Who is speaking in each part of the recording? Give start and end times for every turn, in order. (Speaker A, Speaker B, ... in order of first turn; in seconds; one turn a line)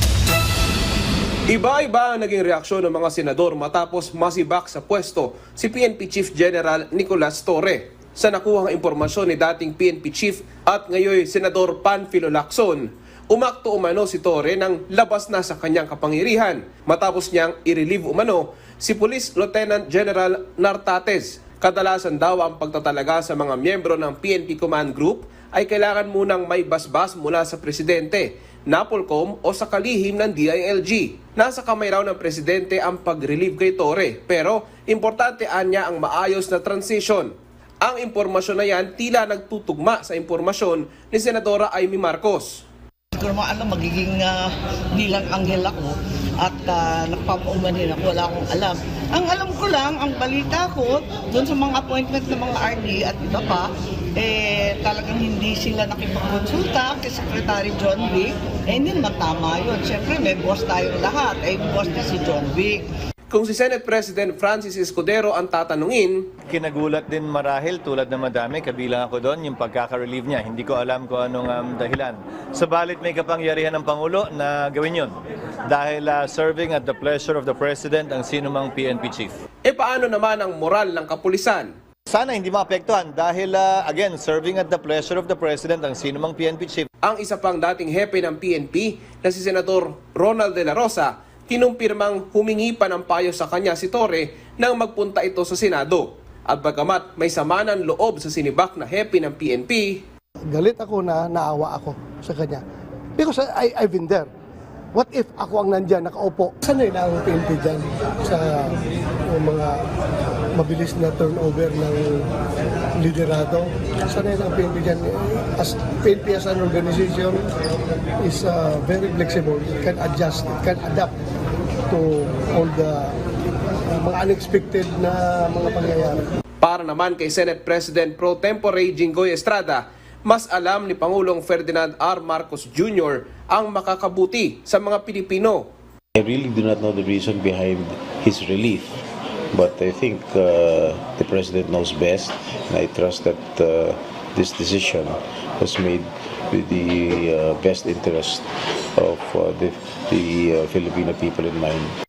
Speaker A: 1.5-42.6
Speaker B: 43.1-62.9
Speaker A: 63.3-66.3
Speaker C: 66.5-79.4
Speaker A: 79.6-81.7
Speaker C: 82.1-86.9
Speaker A: 87.0-100.0
Speaker D: 100.5-102.6
Speaker D: 103.2-104.3
Speaker D: 104.9-108.7
Speaker D: 109.3-109.8
Speaker D: 110.5-112.2
Speaker D: 113.0-117.4
Speaker D: 118.2-121.1
Speaker D: 121.9-123.1
Speaker D: 123.9-126.2
Speaker A: 126.6-135.7
Speaker E: 136.2-139.0
Speaker E: 139.5-151.9